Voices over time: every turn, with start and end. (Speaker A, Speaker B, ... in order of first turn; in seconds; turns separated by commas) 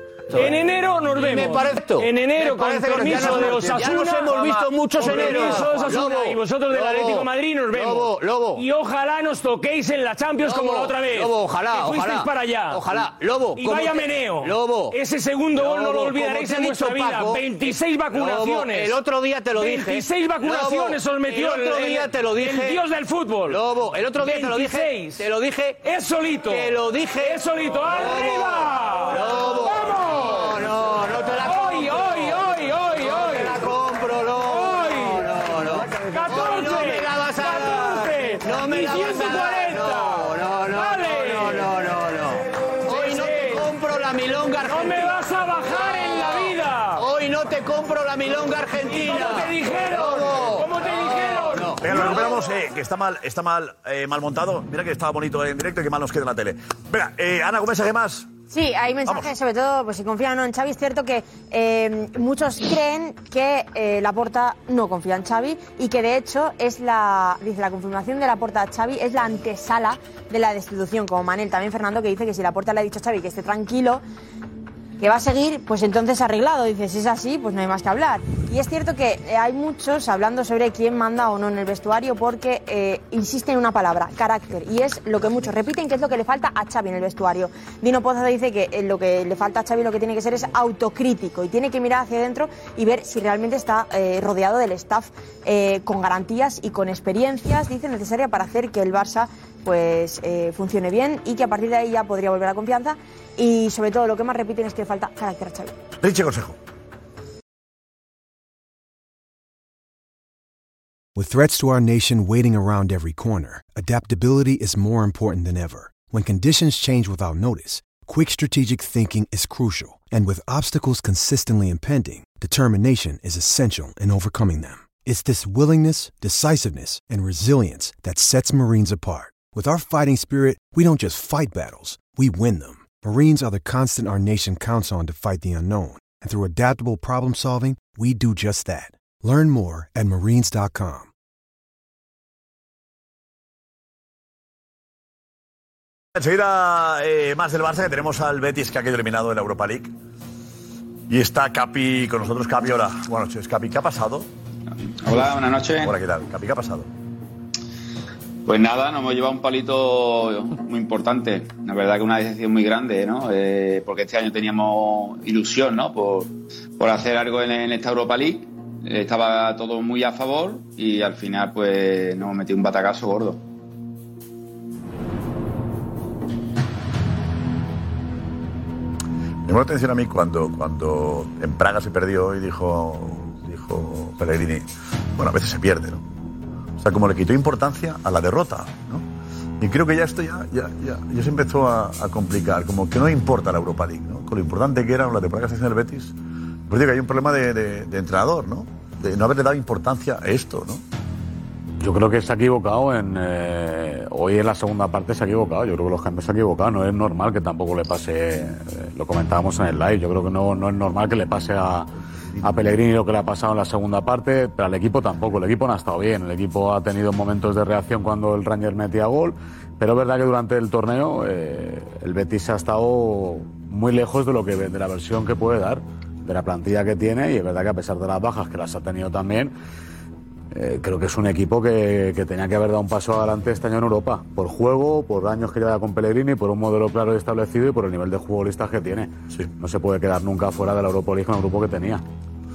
Speaker A: 0.3-12.9, Speaker B: 1.2-8.6, Speaker B: 10.4-14.9, Speaker A: 13.5-23.7, Speaker B: 15.6-17.5, Speaker B: 18.1-22.8, Speaker B: 23.5-25.8, Speaker A: 24.2-25.3, Speaker A: 25.8-30.5, Speaker B: 26.5-27.4, Speaker B: 27.9-32.3, Speaker A: 31.3-33.6, Speaker B: 33.0-45.1, Speaker A: 34.5-35.3, Speaker A: 36.1-41.7, Speaker A: 42.9-43.7, Speaker A: 44.6-47.0, Speaker B: 47.0-51.8, Speaker A: 48.9-52.2, Speaker C: 51.8-58.3, Speaker D: 58.5-74.0, Speaker C: 59.1-59.3, Speaker D: 75.0-105.7, Speaker C: 106.0-106.6, Speaker E: 111.2-141.1, Speaker C: 146.2-149.9, Speaker C: 151.1-154.3, Speaker F: 155.0-155.9, Speaker C: 155.8-156.9, Speaker F: 158.5-173.4, Speaker C: 179.4-186.0, Speaker C: 186.8-189.1, Speaker C: 189.6-196.2, Speaker C: 196.7-200.8, Speaker G: 201.8-211.9, Speaker G: 212.4-229.5, Speaker G: 230.5-242.0